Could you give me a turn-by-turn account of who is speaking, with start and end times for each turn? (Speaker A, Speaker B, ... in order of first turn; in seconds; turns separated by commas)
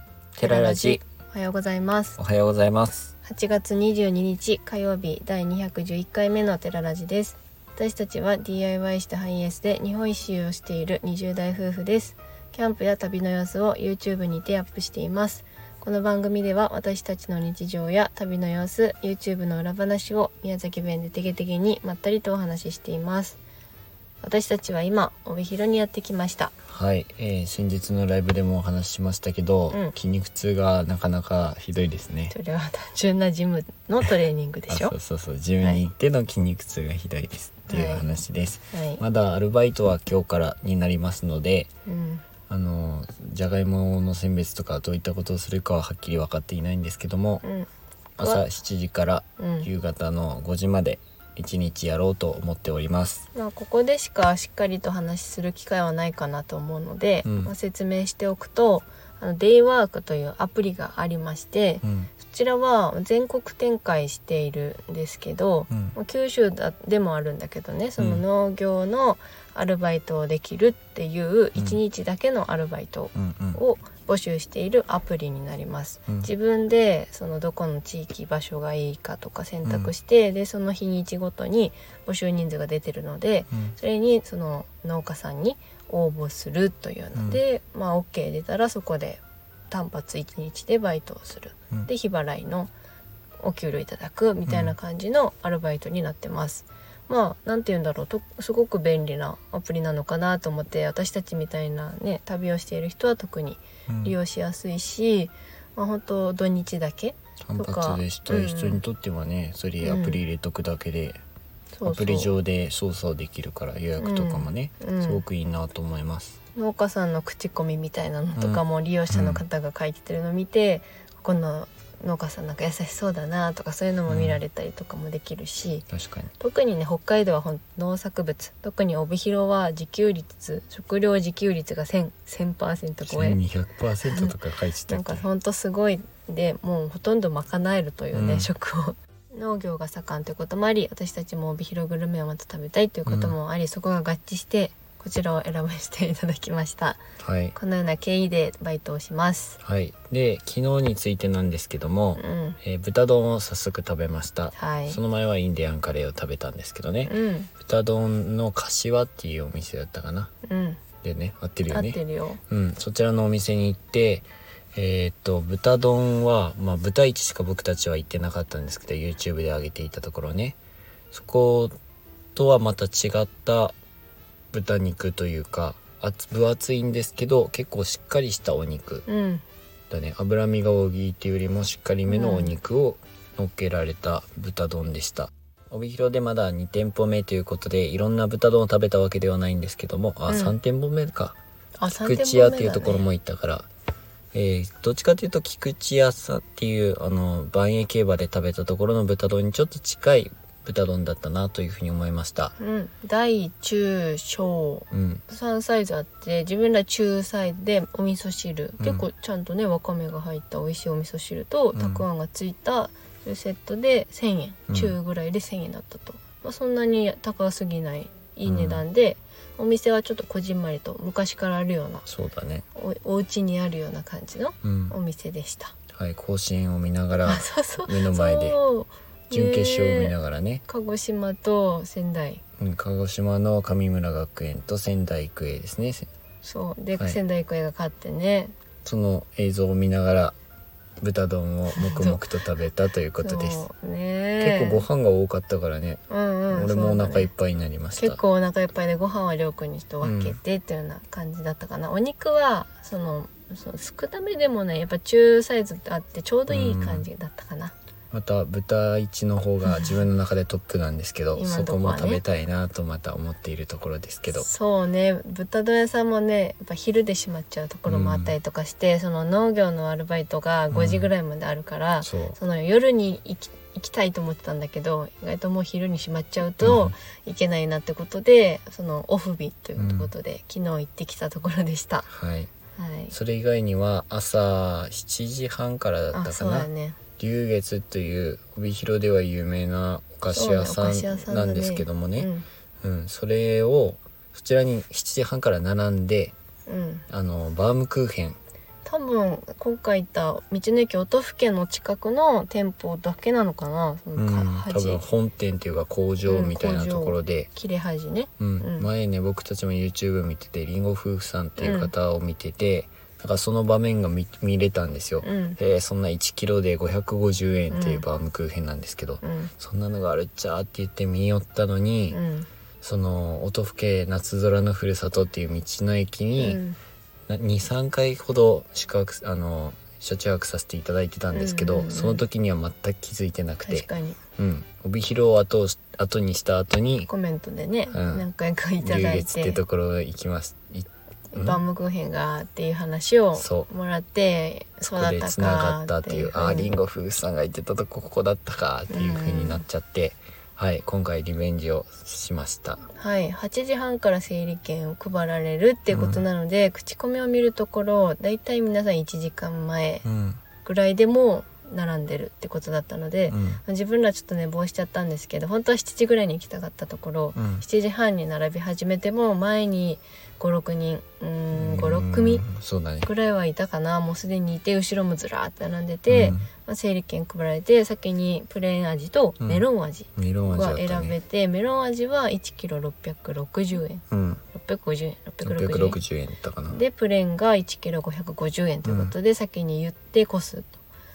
Speaker A: 0.3-1.0, Speaker B: 0.4-2.2, Speaker A: 2.2-3.1, Speaker B: 3.2-23.4, Speaker B: 24.2-26.5, Speaker A: 26.7-32.3, Speaker B: 32.3-35.0, Speaker A: 34.7-41.7, Speaker B: 37.7-38.0, Speaker B: 38.7-39.0, Speaker B: 41.9-42.2, Speaker A: 42.5-47.4, Speaker B: 47.4-47.7, Speaker A: 48.2-53.2, Speaker B: 49.4-49.7, Speaker B: 53.3-92.7, Speaker A: 57.2-57.5, Speaker A: 61.8-62.1, Speaker A: 65.7-66.0, Speaker A: 68.0-68.2, Speaker A: 73.1-73.6, Speaker A: 79.6-79.9, Speaker A: 87.1-87.4, Speaker B: 93.4-108.8, Speaker A: 94.5-94.7, Speaker A: 103.9-104.1, Speaker A: 107.5-111.2, Speaker B: 109.8-110.2, Speaker B: 111.7-112.3, Speaker A: 111.8-116.4, Speaker B: 114.0-115.2, Speaker B: 116.5-125.9, Speaker A: 118.3-119.4, Speaker A: 124.1-124.4, Speaker A: 125.9-126.3, Speaker B: 126.4-133.4, Speaker A: 133.1-135.2, Speaker B: 134.0-134.3, Speaker B: 134.9-147.0, Speaker A: 138.1-138.5, Speaker A: 143.1-143.3, Speaker A: 147.2-147.6, Speaker B: 147.5-149.6, Speaker A: 149.6-160.3, Speaker B: 152.2-152.6, Speaker B: 154.5-155.0, Speaker B: 157.1-157.5, Speaker B: 160.4-160.8, Speaker A: 161.0-170.6, Speaker B: 161.7-162.4, Speaker A: 171.1-171.7, Speaker A: 172.3-173.7, Speaker A: 174.5-179.1, Speaker B: 179.1-179.4, Speaker A: 179.9-193.7, Speaker B: 182.1-182.6, Speaker B: 190.3-190.6, Speaker B: 191.8-193.0, Speaker A: 194.3-202.5, Speaker B: 202.6-222.1, Speaker A: 204.9-205.2, Speaker A: 208.8-209.0, Speaker A: 211.7-212.1, Speaker A: 214.7-214.9, Speaker A: 218.4-218.8, Speaker A: 222.1-222.6, Speaker B: 222.7-225.7, Speaker A: 224.6-224.9, Speaker A: 225.9-228.6, Speaker B: 227.2-230.1, Speaker A: 229.3-230.6, Speaker B: 230.7-232.4, Speaker A: 232.6-236.1, Speaker B: 236.4-238.5, Speaker A: 238.8-240.3, Speaker A: 241.0-243.6, Speaker B: 241.7-242.2, Speaker B: 243.2-244.9, Speaker A: 244.4-248.2, Speaker B: 246.1-247.3, Speaker B: 248.0-257.7, Speaker A: 250.0-250.4, Speaker A: 256.5-257.1, Speaker A: 258.1-264.4, Speaker B: 259.6-260.1, Speaker B: 261.3-262.2, Speaker B: 264.3-282.1, Speaker A: 267.9-268.3, Speaker A: 270.7-271.1, Speaker A: 272.0-272.4, Speaker A: 276.6-276.9, Speaker A: 279.8-280.1, Speaker A: 282.1-282.5, Speaker B: 282.8-283.1, Speaker A: 283.1-292.3, Speaker B: 286.1-287.0, Speaker B: 290.3-292.4, Speaker A: 292.8-296.3, Speaker B: 296.7-297.0, Speaker A: 297.1-298.4, Speaker B: 298.8-305.0, Speaker A: 304.1-307.5, Speaker B: 306.2-308.9, Speaker A: 308.4-322.2, Speaker B: 311.6-311.9, Speaker B: 315.2-315.6, Speaker B: 317.7-318.0, Speaker B: 319.2-319.5, Speaker B: 322.1-322.5, Speaker A: 322.8-326.6, Speaker B: 326.4-326.8, Speaker A: 327.3-333.9, Speaker B: 331.3-332.2, Speaker B: 333.6-334.2, Speaker A: 334.4-337.1, Speaker B: 337.1-339.6, Speaker A: 337.9-338.3, Speaker A: 338.8-341.6, Speaker B: 341.3-346.7, Speaker A: 343.3-343.7, Speaker A: 344.8-352.8, Speaker B: 348.9-349.6, Speaker B: 352.9-360.0, Speaker A: 355.9-356.2, Speaker A: 360.0-360.4, Speaker B: 360.6-372.4, Speaker A: 363.3-363.6, Speaker A: 367.3-367.6, Speaker A: 371.5-373.1, Speaker B: 373.0-386.0, Speaker A: 376.1-376.5, Speaker A: 380.1-381.1, Speaker A: 384.1-384.4, Speaker A: 385.4-386.8, Speaker B: 386.7-390.7, Speaker A: 388.8-389.1